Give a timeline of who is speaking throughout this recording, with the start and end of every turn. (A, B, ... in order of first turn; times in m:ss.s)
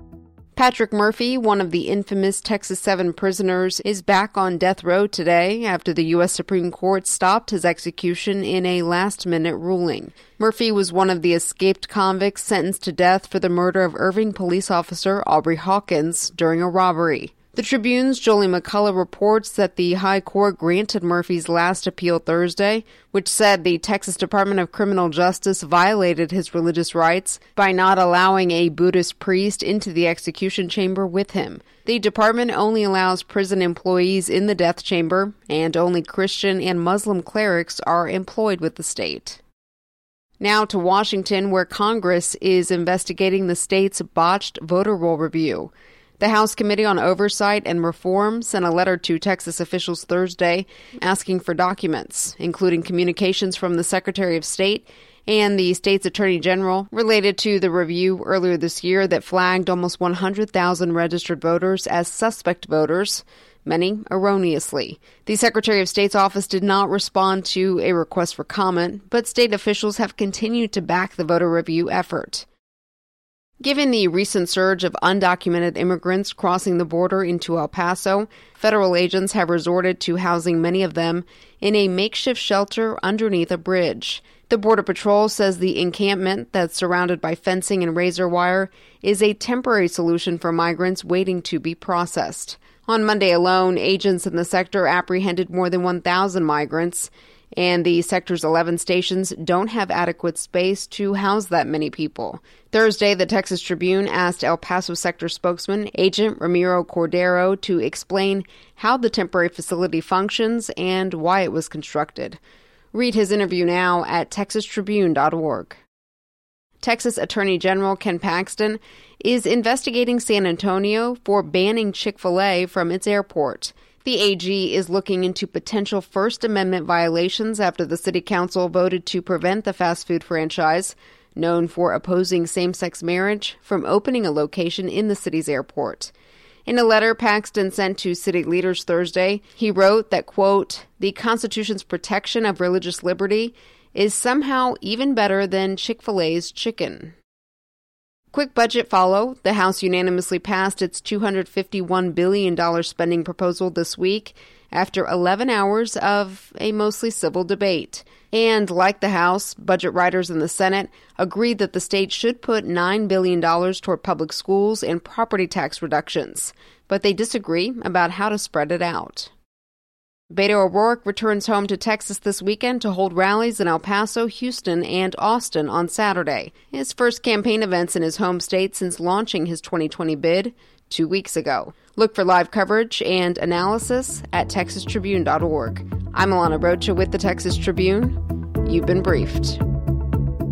0:00.6-0:39.4 A
0:40.4-1:12.5 A
1:13.6-1:52.4 A
1:52.9-1:55.8 A
1:56.8-2:16.1 A
2:16.7-2:27.2 A
2:28.3-2:49.3 A
2:50.3-3:09.6 A